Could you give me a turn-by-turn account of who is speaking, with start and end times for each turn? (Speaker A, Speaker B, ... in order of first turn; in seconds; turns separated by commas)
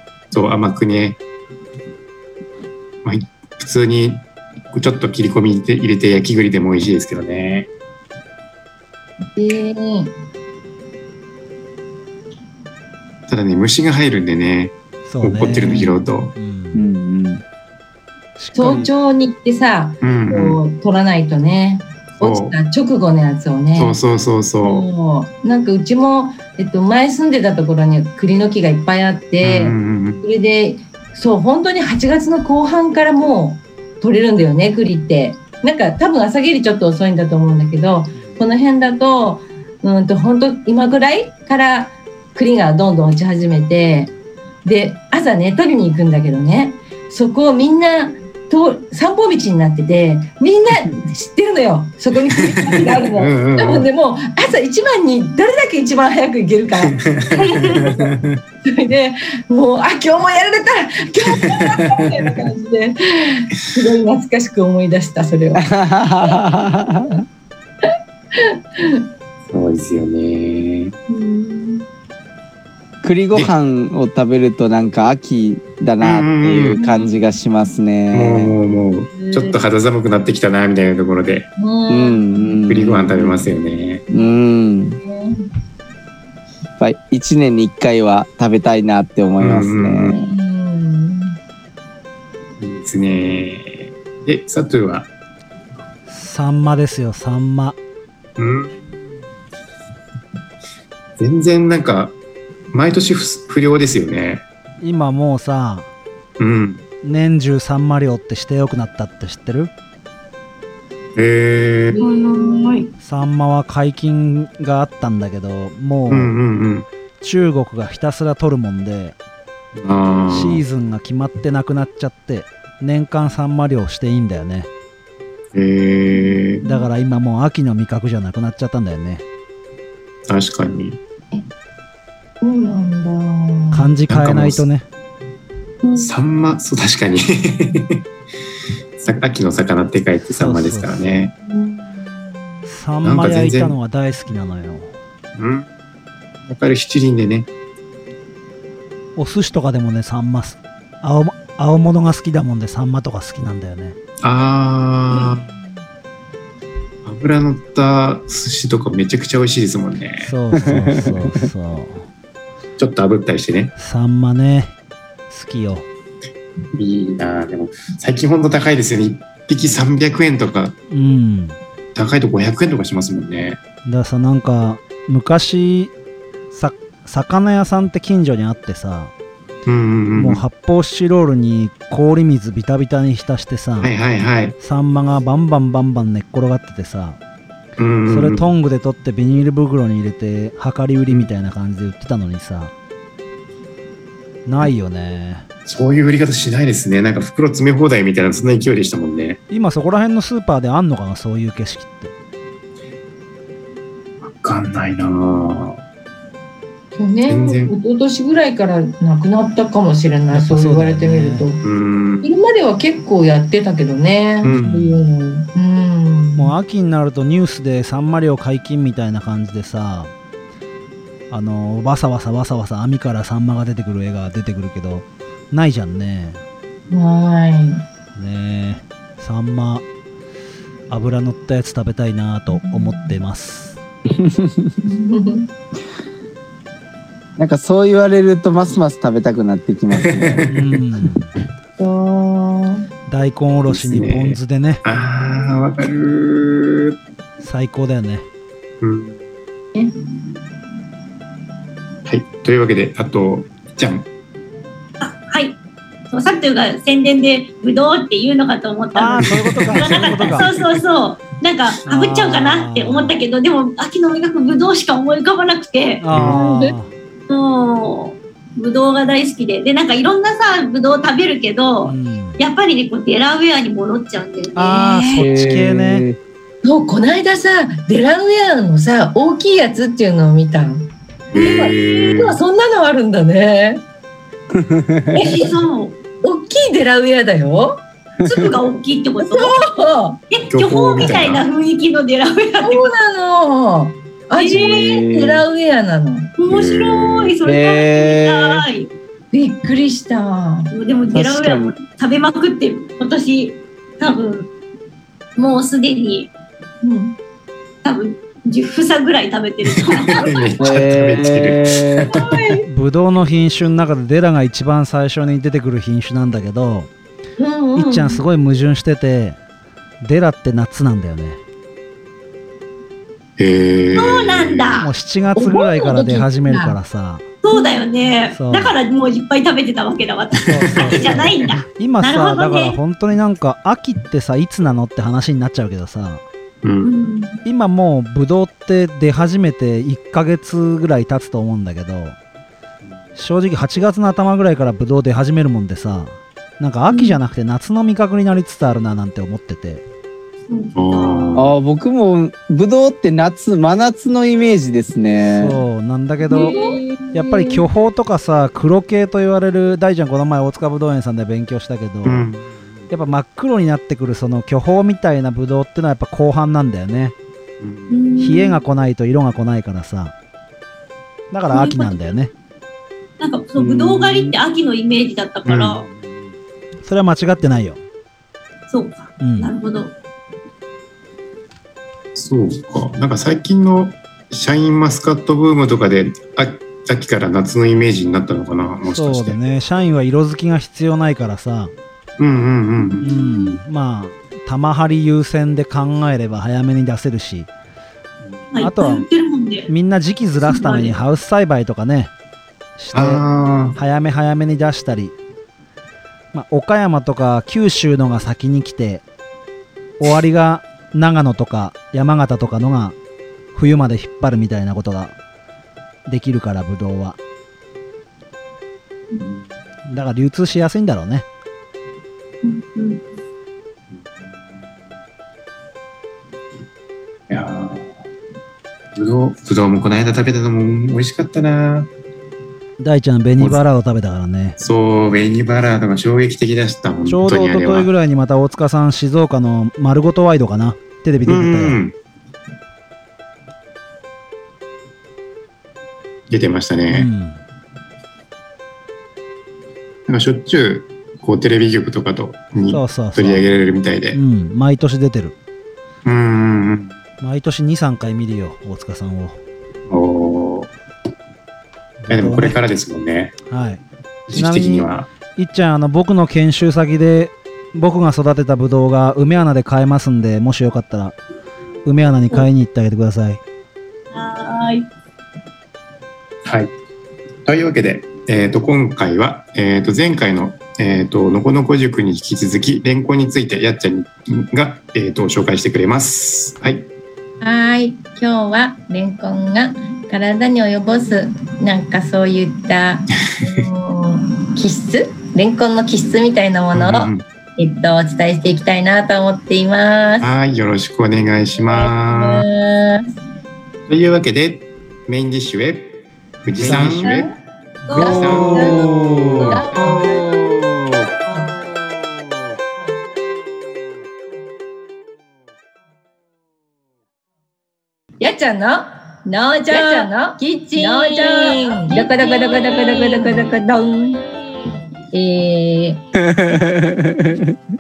Speaker A: 0.3-1.2, Speaker A: 3.0-7.7, Speaker B: 9.3-10.1, Speaker A: 13.3-16.4, Speaker C: 15.1-16.9, Speaker D: 16.7-17.4, Speaker C: 18.4-18.9, Speaker B: 18.6-24.0, Speaker A: 20.0-20.6, Speaker A: 22.2-22.6, Speaker A: 23.8-24.9, Speaker B: 24.6-44.1, Speaker A: 29.4-30.2, Speaker B: 44.6-58.1, Speaker A: 52.7-53.9, Speaker A: 56.8-58.4, Speaker E: 57.4-57.8, Speaker B: 58.6-65.7, Speaker A: 61.5-62.0, Speaker D: 65.5-67.2, Speaker B: 68.3-69.0, Speaker A: 69.5-70.9, Speaker B: 71.2-71.8, Speaker D: 73.0-78.6, Speaker A: 76.0-76.8, Speaker B: 76.8-77.2, Speaker A: 78.1-81.5, Speaker B: 79.2-79.6, Speaker B: 81.6-82.6, Speaker D: 81.9-83.4, Speaker A: 82.7-84.0, Speaker D: 84.1-85.0, Speaker B: 84.1-84.4, Speaker B: 85.0-85.5, Speaker D: 86.8-90.3, Speaker A: 89.4-90.2, Speaker B: 90.2-91.4, Speaker A: 92.6-95.1, Speaker C: 96.1-97.8, Speaker A: 98.4-98.8, Speaker A: 101.2-102.2, Speaker A: 102.7-104.5, Speaker C: 104.8-105.9, Speaker A: 106.4-106.8, Speaker C: 107.0-109.7, Speaker A: 111.2-112.0, Speaker B: 111.9-112.8, Speaker E: 112.0-112.9, Speaker C: 113.0-116.3, Speaker A: 116.1-116.9, Speaker C: 117.2-119.2, Speaker A: 119.8-120.6, Speaker C: 120.3-124.7, Speaker A: 125.5-126.6, Speaker C: 126.6-129.2, Speaker A: 130.3-131.0, Speaker B: 132.4-133.9, Speaker C: 133.7-134.9, Speaker A: 134.1-134.7, Speaker E: 135.8-136.1, Speaker A: 136.0-138.0, Speaker A: 139.0-141.3, Speaker C: 140.4-141.2, Speaker B: 141.5-141.8, Speaker C: 142.7-144.9, Speaker A: 143.0-143.8, Speaker A: 145.4-145.7, Speaker A: 146.5-147.5, Speaker C: 149.2-154.0, Speaker A: 154.2-155.4, Speaker A: 157.1-160.3, Speaker C: 160.2-162.1, Speaker D: 160.7-161.3, Speaker A: 162.8-163.8, Speaker C: 163.8-164.7, Speaker C: 165.3-165.9, Speaker A: 166.8-170.8, Speaker C: 170.9-171.6, Speaker A: 171.9-173.6, Speaker C: 173.8-175.9, Speaker C: 176.5-179.1, Speaker A: 179.7-180.4, Speaker C: 180.2-183.9, Speaker A: 183.8-184.6, Speaker C: 184.6-187.2, Speaker A: 187.8-188.5, Speaker C: 188.1-192.7, Speaker C: 194.5-195.5, Speaker A: 195.7-199.4, Speaker C: 199.5-202.1, Speaker A: 204.2-205.8, Speaker B: 206.9-211.6, Speaker A: 207.3-207.8, Speaker C: 210.3-211.5, Speaker A: 211.6-212.3, Speaker B: 212.2-216.6, Speaker A: 214.4-214.8, Speaker C: 214.5-215.1, Speaker C: 216.4-220.1, Speaker C: 221.3-226.4, Speaker B: 226.9-227.8, Speaker C: 228.2-229.8, Speaker C: 230.9-233.8, Speaker B: 232.5-233.2, Speaker D: 234.1-234.8, Speaker B: 234.8-235.5, Speaker D: 237.4-240.5, Speaker A: 240.0-240.5, Speaker C: 240.5-241.3, Speaker B: 241.8-242.9, Speaker C: 243.1-244.8, Speaker A: 243.7-247.0, Speaker C: 247.4-248.2, Speaker A: 248.8-249.2, Speaker A: 252.1-254.1, Speaker E: 255.0-255.6, Speaker E: 256.1-266.0, Speaker C: 258.9-260.5, Speaker A: 259.5-260.8, Speaker C: 261.9-263.1, Speaker C: 266.0-266.9, Speaker A: 266.1-266.4, Speaker B: 266.2-266.7, Speaker E: 267.3-275.2, Speaker C: 271.9-272.4, Speaker C: 274.6-276.1, Speaker D: 275.1-276.2, Speaker B: 276.6-283.8, Speaker A: 281.3-282.4, Speaker E: 281.4-282.1, Speaker D: 284.5-285.4, Speaker E: 285.1-285.9, Speaker B: 285.2-285.5, Speaker B: 286.2-287.8, Speaker E: 288.2-289.7, Speaker B: 289.2-290.2, Speaker E: 290.3-292.9, Speaker A: 290.5-291.4, Speaker B: 292.6-296.3, Speaker E: 294.4-295.0, Speaker D: 294.6-295.4, Speaker E: 296.4-298.9, Speaker A: 296.4-297.4, Speaker D: 297.4-298.6, Speaker B: 299.3-300.7, Speaker E: 300.7-304.5, Speaker D: 301.1-301.8, Speaker E: 305.4-306.3, Speaker B: 306.8-307.2, Speaker E: 307.8-310.6, Speaker A: 309.9-312.4, Speaker D: 310.6-312.1, Speaker B: 312.2-312.7, Speaker C: 312.7-316.9, Speaker B: 317.4-318.2, Speaker C: 317.8-319.4, Speaker C: 320.0-321.4, Speaker A: 323.4-324.9, Speaker E: 323.9-324.9, Speaker C: 324.8-327.2, Speaker B: 325.4-326.8, Speaker E: 327.4-332.8, Speaker B: 327.5-327.8, Speaker C: 328.3-328.8, Speaker C: 330.5-336.2, Speaker A: 330.8-331.3, Speaker A: 336.6-336.9, Speaker E: 336.8-337.4, Speaker C: 337.4-342.2, Speaker C: 343.2-349.8, Speaker E: 346.9-347.2, Speaker E: 350.5-351.3, Speaker A: 350.8-351.5, Speaker D: 351.4-355.6, Speaker C: 355.2-356.6, Speaker B: 356.3-356.8, Speaker E: 356.3-357.1, Speaker C: 357.1-362.3, Speaker A: 362.0-362.6, Speaker C: 362.9-367.1, Speaker A: 367.6-367.9, Speaker E: 367.9-368.6, Speaker C: 368.2-370.1, Speaker C: 371.3-372.3, Speaker E: 371.5-372.1, Speaker E: 373.2-375.9, Speaker A: 375.5-375.9, Speaker C: 376.9-377.8, Speaker E: 378.7-379.9, Speaker C: 379.2-379.5, Speaker A: 382.1-389.4, Speaker C: 388.9-391.7, Speaker A: 392.2-393.1, Speaker E: 393.0-393.6, Speaker C: 393.0-397.5, Speaker E: 398.5-399.7, Speaker C: 398.6-399.1, Speaker C: 399.7-402.1, Speaker E: 400.4-400.9, Speaker C: 402.8-405.1, Speaker A: 402.9-403.8, Speaker C: 406.3-409.0, Speaker C: 410.0-413.0, Speaker C: 413.6-415.2, Speaker C: 416.1-417.2, Speaker C: 419.9-421.3, Speaker E: 422.4-423.0, Speaker A: 427.3-427.9, Speaker A: 428.9-431.9, Speaker C: 432.8-434.6, Speaker A: 433.4-433.6, Speaker A: 434.6-437.9, Speaker C: 437.1-441.8, Speaker A: 441.3-442.0, Speaker A: 446.3-447.1, Speaker C: 446.9-447.4, Speaker A: 450.1-454.2, Speaker C: 452.7-453.6, Speaker C: 454.1-455.4, Speaker A: 456.1-457.0, Speaker C: 457.2-459.4, Speaker A: 459.9-460.7, Speaker C: 462.0-462.6, Speaker A: 462.1-463.4, Speaker C: 463.5-471.2, Speaker A: 464.3-465.1, Speaker C: 471.9-473.4, Speaker E: 474.1-474.9, Speaker A: 476.4-476.7, Speaker A: 477.4-486.9, Speaker B: 487.4-500.3, Speaker A: 496.7-497.2, Speaker A: 500.2-502.5, Speaker B: 501.7-503.1, Speaker A: 503.9-507.3, Speaker E: 507.9-510.1, Speaker A: 507.9-511.1, Speaker D: 507.9-509.9, Speaker B: 509.6-510.1, Speaker B: 518.2-524.2, Speaker E: 519.7-520.1, Speaker E: 520.7-523.5, Speaker B: 525.1-526.0, Speaker D: 526.2-527.5